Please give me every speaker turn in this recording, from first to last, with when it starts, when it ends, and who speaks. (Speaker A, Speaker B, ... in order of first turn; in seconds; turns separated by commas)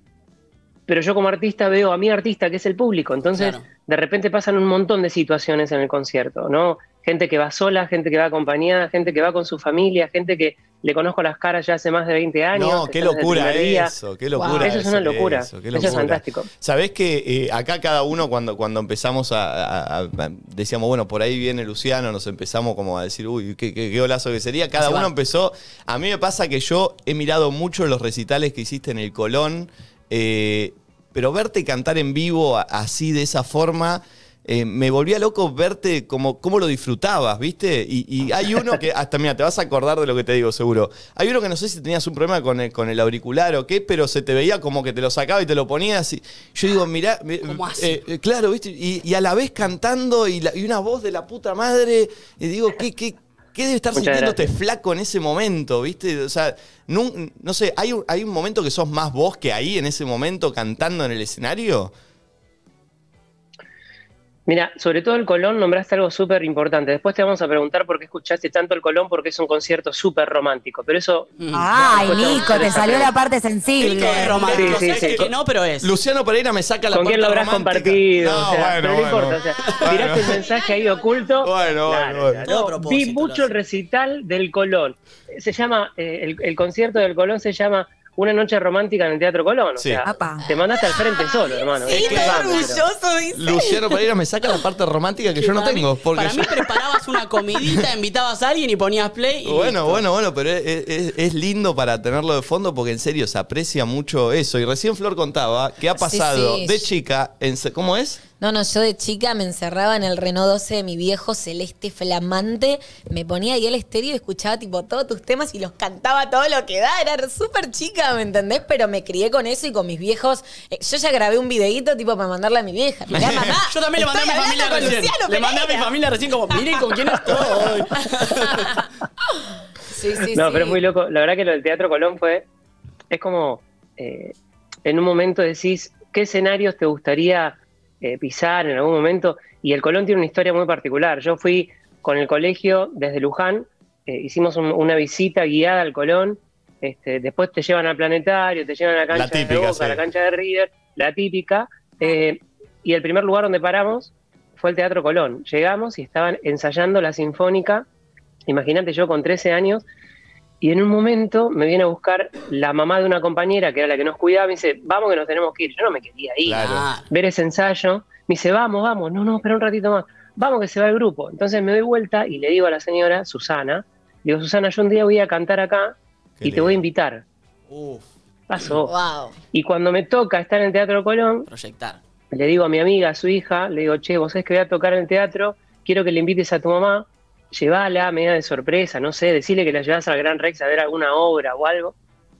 Speaker A: 0.9-13.9, Speaker B: 3.3-3.7, Speaker C: 12.5-61.9, Speaker D: 14.4-14.7, Speaker A: 14.5-16.5, Speaker B: 15.8-16.0, Speaker B: 24.8-25.1, Speaker B: 47.4-48.0, Speaker A: 53.9-54.4, Speaker A: 64.5-73.1, Speaker B: 71.4-72.3, Speaker E: 71.5-74.4, Speaker C: 72.5-73.0, Speaker B: 73.8-75.9, Speaker C: 73.8-80.4, Speaker A: 74.5-75.3, Speaker A: 76.9-92.8, Speaker C: 81.4-82.4, Speaker B: 82.4-83.5, Speaker C: 89.8-90.0, Speaker E: 90.1-90.4, Speaker D: 90.3-94.0, Speaker C: 91.9-92.7, Speaker C: 93.3-96.7, Speaker B: 95.5-100.0, Speaker C: 99.4-108.2, Speaker D: 106.0-106.9, Speaker D: 108.4-125.9, Speaker B: 123.1-128.8, Speaker D: 126.5-129.4, Speaker D: 129.9-130.8, Speaker A: 130.3-132.4, Speaker A: 133.1-157.8, Speaker C: 149.1-150.0, Speaker A: 158.5-159.8, Speaker A: 160.6-177.2, Speaker C: 166.4-166.9, Speaker B: 166.6-167.1, Speaker C: 176.4-176.8, Speaker C: 177.7-178.0, Speaker A: 178.5-178.9, Speaker D: 178.8-179.3, Speaker A: 179.5-181.5, Speaker B: 181.5-182.0, Speaker A: 182.3-191.9